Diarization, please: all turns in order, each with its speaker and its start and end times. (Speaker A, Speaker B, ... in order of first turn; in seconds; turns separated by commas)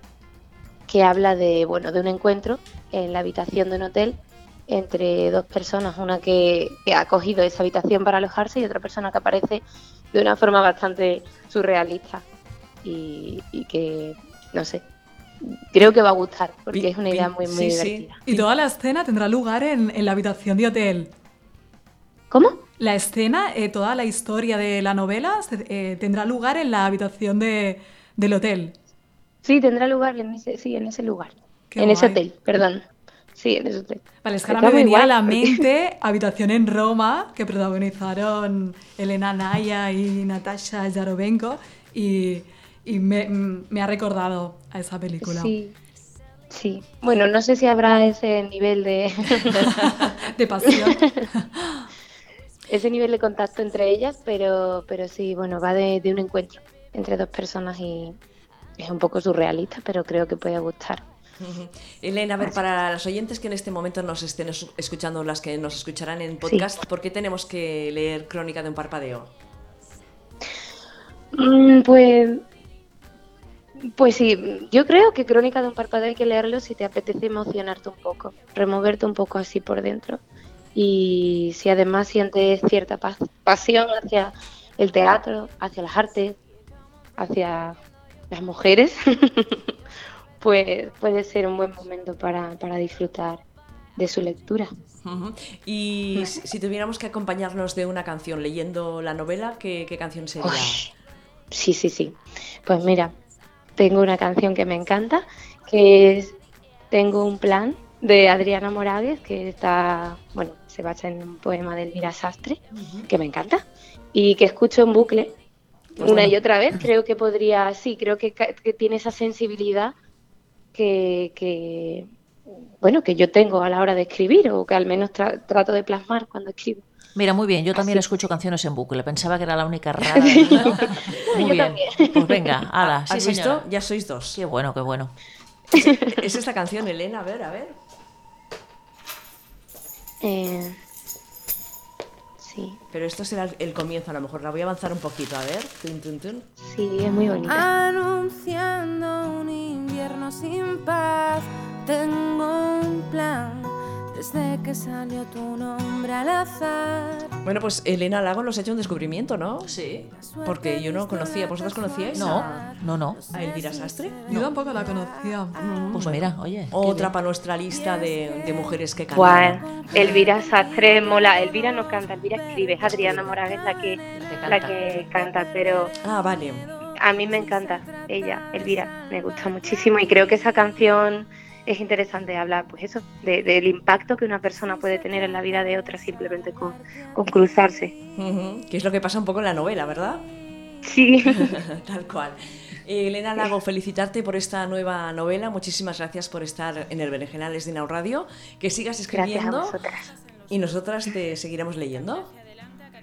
Speaker A: 0.9-4.2, Speaker A: 4.7-9.6, Speaker A: 10.1-12.2, Speaker A: 12.8-14.8, Speaker A: 15.4-18.2, Speaker B: 16.7-18.4, Speaker C: 18.2-21.1, Speaker A: 22.3-22.6, Speaker C: 22.8-28.8, Speaker A: 29.4-32.8, Speaker C: 31.7-32.2, Speaker A: 33.4-35.6, Speaker C: 34.2-45.5, Speaker A: 45.2-45.8, Speaker A: 46.5-49.7, Speaker C: 49.6-51.9, Speaker A: 50.7-51.1, Speaker A: 52.7-58.1, Speaker A: 58.8-61.0, Speaker B: 61.4-69.3, Speaker A: 66.4-66.7, Speaker A: 71.3-72.4, Speaker A: 74.0-80.2, Speaker A: 80.7-86.4, Speaker A: 87.2-87.8, Speaker A: 88.3-89.7, Speaker A: 90.4-93.4, Speaker A: 94.0-94.7, Speaker B: 95.0-100.9, Speaker A: 96.1-96.4, Speaker A: 100.4-100.9, Speaker A: 101.5-103.1, Speaker A: 103.8-106.3, Speaker A: 106.9-113.6, Speaker A: 114.1-115.3, Speaker A: 116.0-119.9, Speaker B: 116.0-116.3, Speaker D: 116.0-116.3, Speaker A: 120.7-122.1, Speaker A: 122.8-126.8, Speaker D: 127.1-133.6, Speaker A: 127.7-128.2, Speaker A: 130.0-132.5, Speaker B: 132.8-134.4, Speaker D: 134.3-135.1, Speaker B: 135.7-137.8, Speaker A: 135.7-136.1, Speaker A: 140.2-140.8, Speaker A: 142.4-142.8, Speaker B: 142.9-146.4, Speaker A: 146.6-147.7, Speaker E: 147.4-157.3, Speaker B: 157.4-159.7, Speaker D: 159.6-160.1, Speaker E: 160.1-164.3, Speaker B: 160.4-162.7, Speaker D: 162.1-163.2, Speaker B: 163.3-164.2, Speaker C: 164.3-165.6, Speaker B: 165.6-170.2, Speaker D: 165.9-167.1, Speaker A: 169.1-175.9, Speaker E: 169.7-170.9, Speaker D: 172.8-173.3, Speaker D: 174.2-174.7, Speaker B: 176.0-176.7, Speaker A: 176.9-187.9, Speaker B: 188.2-190.2, Speaker A: 190.8-191.6, Speaker B: 191.3-199.8, Speaker A: 199.1-200.1, Speaker B: 200.5-202.3